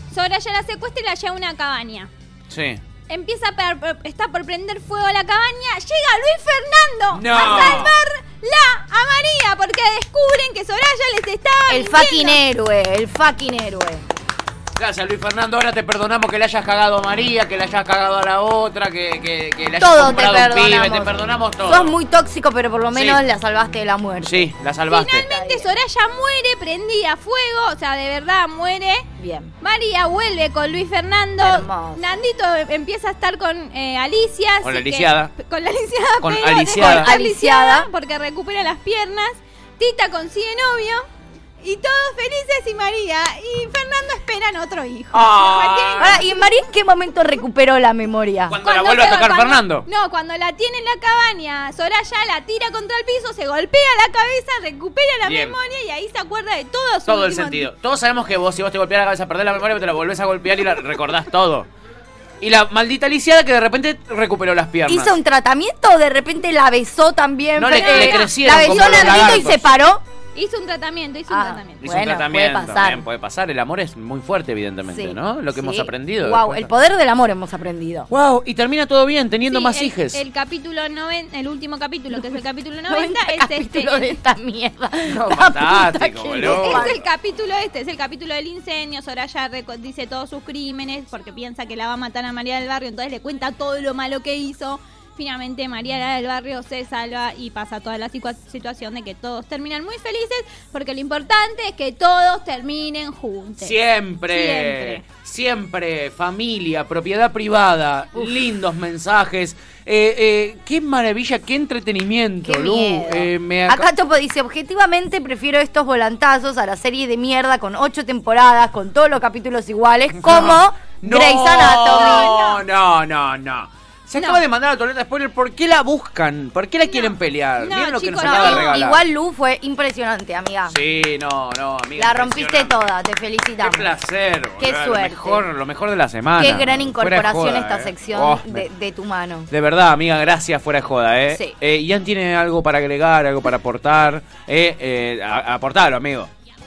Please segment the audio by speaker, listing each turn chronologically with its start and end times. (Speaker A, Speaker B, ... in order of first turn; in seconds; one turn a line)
Speaker A: 0.1-2.1
Speaker B: 2.5-2.8
Speaker A: 3.1-12.4
Speaker B: 7.1-7.9
Speaker C: 7.4-7.8
Speaker C: 11.7-14.1
Speaker B: 14.8-21.9
Speaker C: 19.8-24.5
Speaker B: 22.9-23.2
Speaker B: 24.2-25.3
Speaker A: 24.9-29.1
Speaker C: 25.1-25.7
Speaker C: 29.2-29.5
Speaker A: 29.6-41.1
Speaker C: 31.4-32.2
Speaker B: 34.6-35.3
Speaker B: 36.2-37.1
Speaker C: 36.8-37.9
Speaker A: 41.6-46.2
Speaker B: 45.1-46.3
Speaker C: 46.0-48.6
Speaker B: 48.5-49.9
Speaker A: 48.6-57.7
Speaker B: 55.2-55.5
Speaker B: 57.1-61.7
Speaker B: 62.4-65.1
Speaker C: 64.9-70.0
Speaker B: 67.6-69.6
Speaker A: 67.8-69.5
Speaker A: 70.3-71.8
Speaker C: 71.3-73.0
Speaker B: 71.8-76.7
Speaker C: 74.9-78.1
Speaker B: 78.1-80.2
Speaker A: 79.5-84.1
Speaker C: 82.9-87.0
Speaker B: 85.1-86.9
Speaker A: 86.4-103.8
Speaker B: 103.6-113.8
Speaker A: 104.3-105.0
Speaker C: 112.4-122.4
Speaker B: 120.2-129.0
Speaker A: 121.8-122.6
Speaker C: 124.1-124.4
Speaker A: 126.9-128.8
Speaker C: 128.2-130.8
Speaker B: 130.7-132.8
Speaker C: 132.0-133.9
Speaker B: 133.6-138.7
Speaker C: 134.6-135.5
Speaker C: 136.4-139.5
Speaker B: 139.5-146.3
Speaker C: 141.3-141.5